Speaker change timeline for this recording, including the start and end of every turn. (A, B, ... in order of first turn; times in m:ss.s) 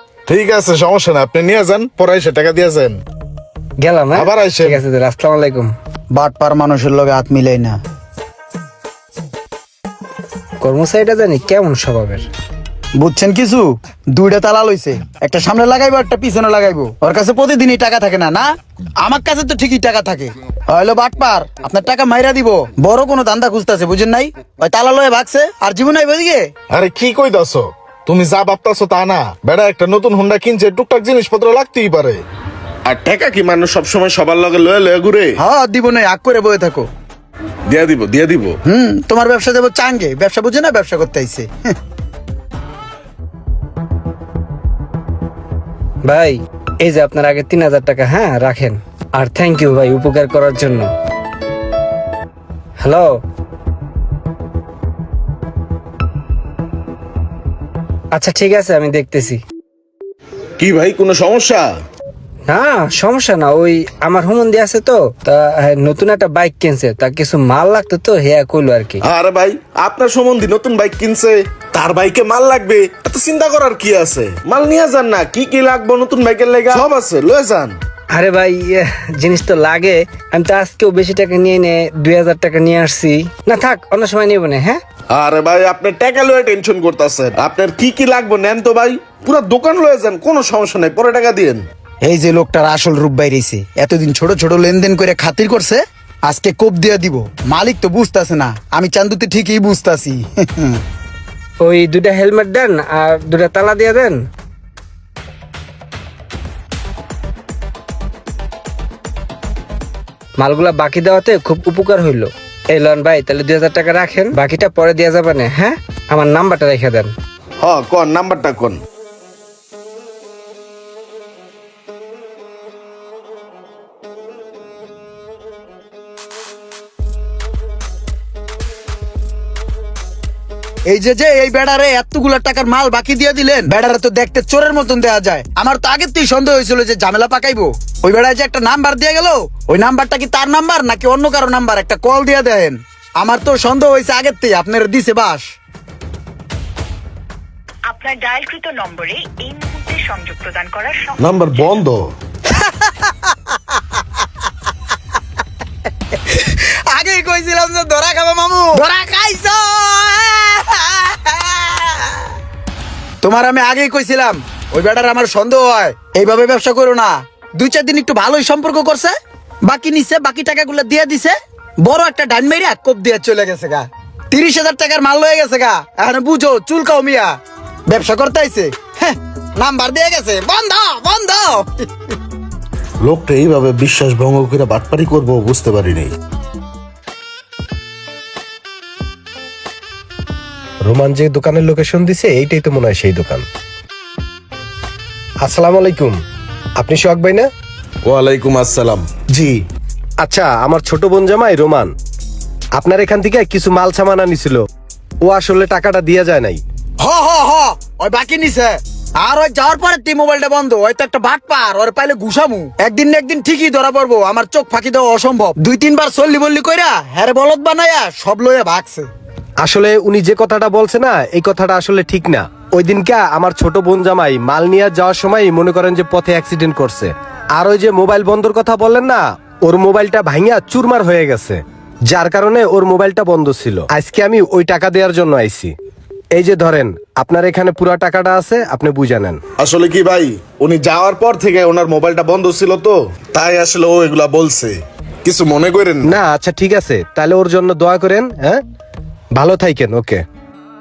0:00.3-0:03.0 A
0:03.8-0:05.7 B
0:04.2-0:04.8 A
0:06.1-0:07.8 C
0:10.6-0:12.3 B
0:13.0-0:18.5 C
0:19.0-0:26.5 C
0:26.7-0:32.2 A
0:32.8-0:35.4 A
0:35.4-0:36.9 C
0:37.7-0:38.6 A
0:38.7-0:41.8 C
0:46.1-0:50.9 B
0:52.8-0:53.2 B
0:58.1-0:59.4 B
1:00.6-1:01.7 A
1:02.5-1:09.0 B
1:09.0-1:17.8 A
1:18.1-1:24.8 B
1:25.1-1:31.7 A
1:32.0-1:40.8 C
1:41.6-1:44.2 B
1:50.4-1:57.1 B
1:57.6-1:58.8 A
2:10.9-2:25.5 C
2:27.9-2:31.7 D
2:31.2-2:32.1 A
2:32.5-2:33.6 C
2:36.3-2:42.2 C
2:43.2-2:57.3 C
2:57.9-3:01.9 C
3:03.0-3:06.1 A
3:10.8-3:13.5 E
3:15.4-3:16.2 E
3:16.8-3:17.5 E
3:18.1-3:19.6 A
3:20.2-3:22.0 E
3:22.8-3:24.7 E
3:25.2-3:26.6 E
3:27.0-3:39.1 C
3:39.6-3:55.7 E
3:56.3-3:59.4 E
3:59.6-4:06.1 A
4:06.0-4:08.6 E
4:09.3-4:10.2 E